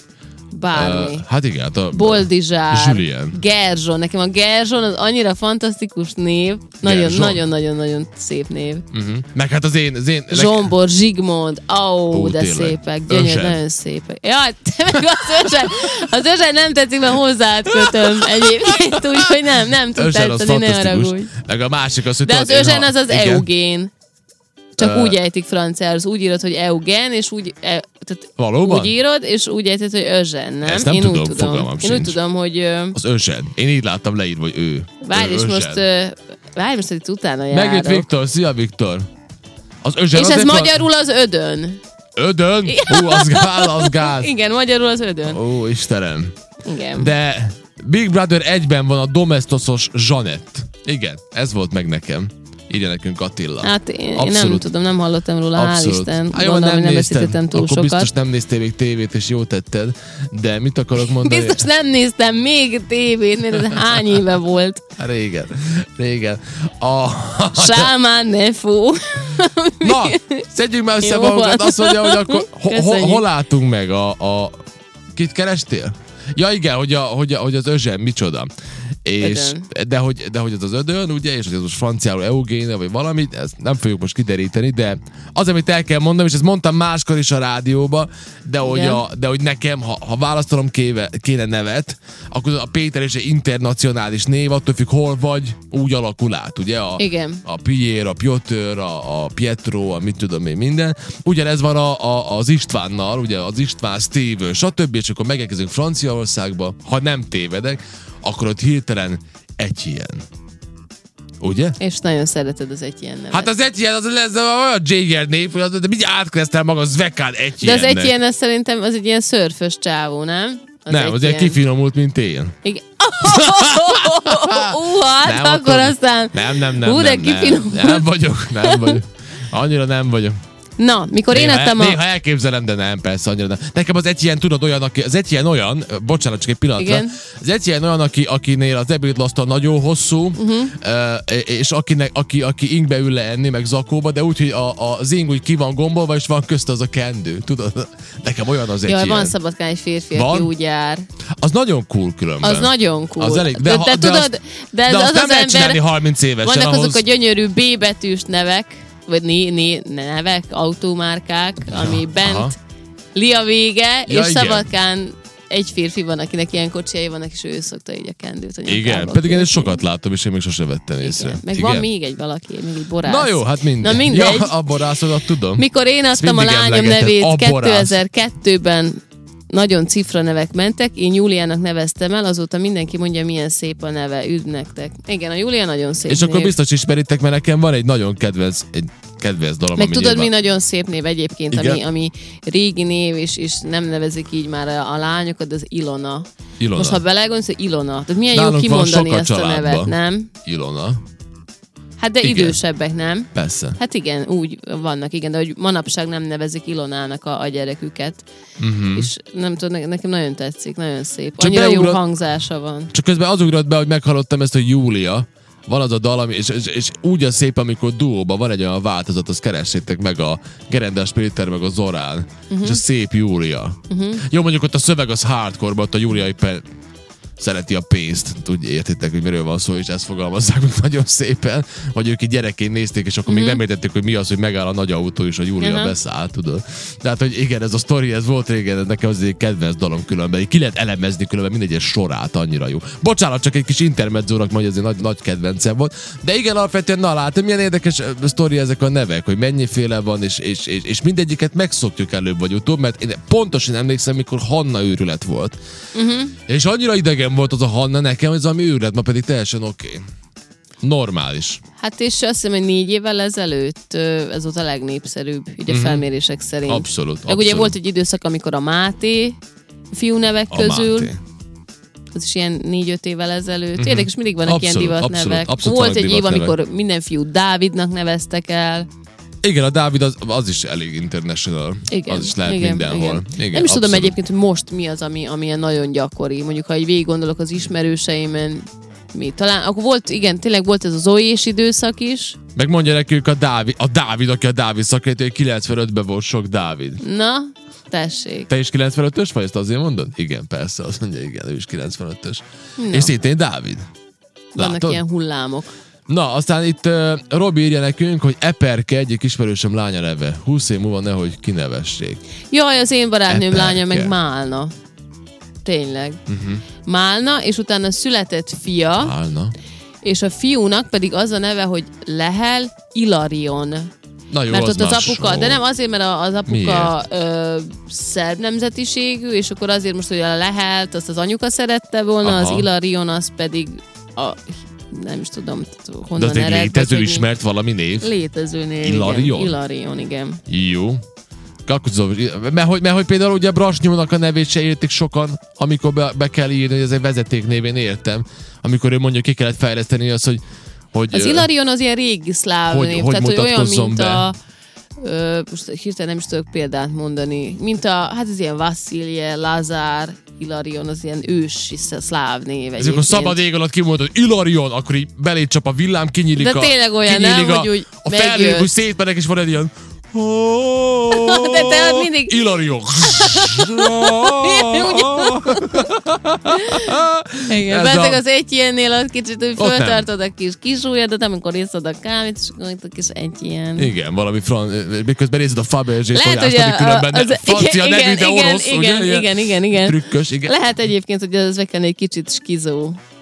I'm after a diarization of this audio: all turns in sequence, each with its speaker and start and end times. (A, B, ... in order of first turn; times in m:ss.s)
0:00.5-0:01.2 A
0:00.7-0:03.4 B
0:01.9-0:08.8 A
0:06.8-0:07.4 B
0:08.9-0:10.7 B
0:10.3-0:21.3 A
0:12.1-0:13.6 B
0:15.0-0:15.5 B
0:17.7-0:19.3 B
0:19.9-0:23.5 B
0:22.2-0:23.9 A
0:24.8-0:33.0 A
0:24.8-0:25.2 B
0:28.4-0:28.9 B
0:30.6-0:32.2 B
0:32.9-0:35.8 B
0:35.0-0:38.1 A
0:37.5-0:39.1 B
0:39.8-0:40.8 B
0:40.1-0:41.8 A
0:42.2-0:44.3 B
0:42.6-0:45.4 A
0:45.3-0:46.3 B
0:46.6-0:47.1 A
0:47.0-0:54.7 B
0:53.6-0:58.1 A
0:55.5-1:01.7 B
1:01.0-1:04.9 A
1:05.0-1:07.9 B
1:07.5-1:10.5 A
1:09.8-1:14.6 B
1:11.0-1:13.2 A
1:15.1-1:18.5 B
1:19.0-1:50.2 B
1:19.2-1:19.7 A
1:28.6-1:29.0 A
1:37.0-1:37.4 A
1:51.4-1:51.8 B
1:51.8-1:53.5 A
1:53.3-1:58.2 B
1:57.6-2:01.6 A
2:00.9-2:02.6 B
2:02.6-2:09.0 A
2:03.2-2:10.4 B
2:10.8-2:12.0 A
2:11.3-2:29.3 B
2:16.8-2:17.2 A
2:20.4-2:20.7 A
2:28.8-2:31.1 A
2:30.1-2:30.5 B
2:31.4-2:34.3 B
2:32.4-2:35.8 A
2:34.9-2:37.0 B
2:36.4-2:42.6 A
2:41.7-2:42.5 B
2:43.1-2:49.8 A
2:44.1-2:44.7 B
2:48.7-2:51.8 B
2:51.0-2:54.6 A
2:53.0-2:58.0 B
2:55.5-2:59.0 A
2:59.5-3:06.5 A
3:06.1-3:10.3 B
3:09.7-3:20.3 A
3:11.5-3:11.8 B
3:16.6-3:17.0 B
3:18.3-3:21.0 B
3:22.0-3:28.2 A
3:22.2-3:22.6 B
3:23.3-3:23.8 B
3:28.6-3:29.1 B
3:28.9-3:32.9 A
3:31.4-3:32.0 B
3:32.9-3:46.6 B
3:42.5-3:42.8 A
3:43.9-3:44.2 A
3:47.4-4:15.6 B
3:53.2-3:53.6 A
3:55.6-3:55.9 A
4:15.9-4:16.4 A
4:16.5-4:20.0 B
4:20.8-4:21.6 B
4:21.8-4:29.4 A
4:25.7-4:26.0 B
4:26.7-4:27.7 B
4:29.9-4:31.1 A
4:30.5-4:31.2 B
4:32.1-4:38.9 A
4:33.8-4:36.6 B
4:39.4-4:44.2 B
4:41.9-4:52.4 A
4:52.6-4:57.0 B
4:57.0-4:58.5 A
4:58.5-5:03.9 B
5:02.8-5:03.1 A
5:04.6-5:05.7 A
5:04.6-5:05.0 B
5:06.1-5:12.2 B
5:12.5-5:14.7 A
5:13.3-5:14.1 B
5:15.6-5:16.2 A
5:16.3-5:16.6 B
5:16.8-5:19.1 A
5:19.0-5:19.5 B
5:20.0-5:23.9 A
5:24.3-5:25.6 B
5:24.5-5:37.3 A
5:26.5-5:26.9 B
5:32.2-5:32.6 B
5:36.2-5:38.1 B
5:38.0-5:40.4 A
5:38.8-5:39.6 B
5:40.5-5:41.0 B
5:41.6-5:50.4 B
5:50.9-5:51.5 B
5:51.1-5:54.4 A
5:52.7-5:54.3 B
5:55.0-6:03.4 A
6:02.8-6:18.2 B
6:06.3-6:08.7 A
6:11.1-6:15.8 A
6:16.5-6:23.9 A
6:19.6-6:20.0 B
6:23.8-6:30.5 B
6:26.1-6:33.0 A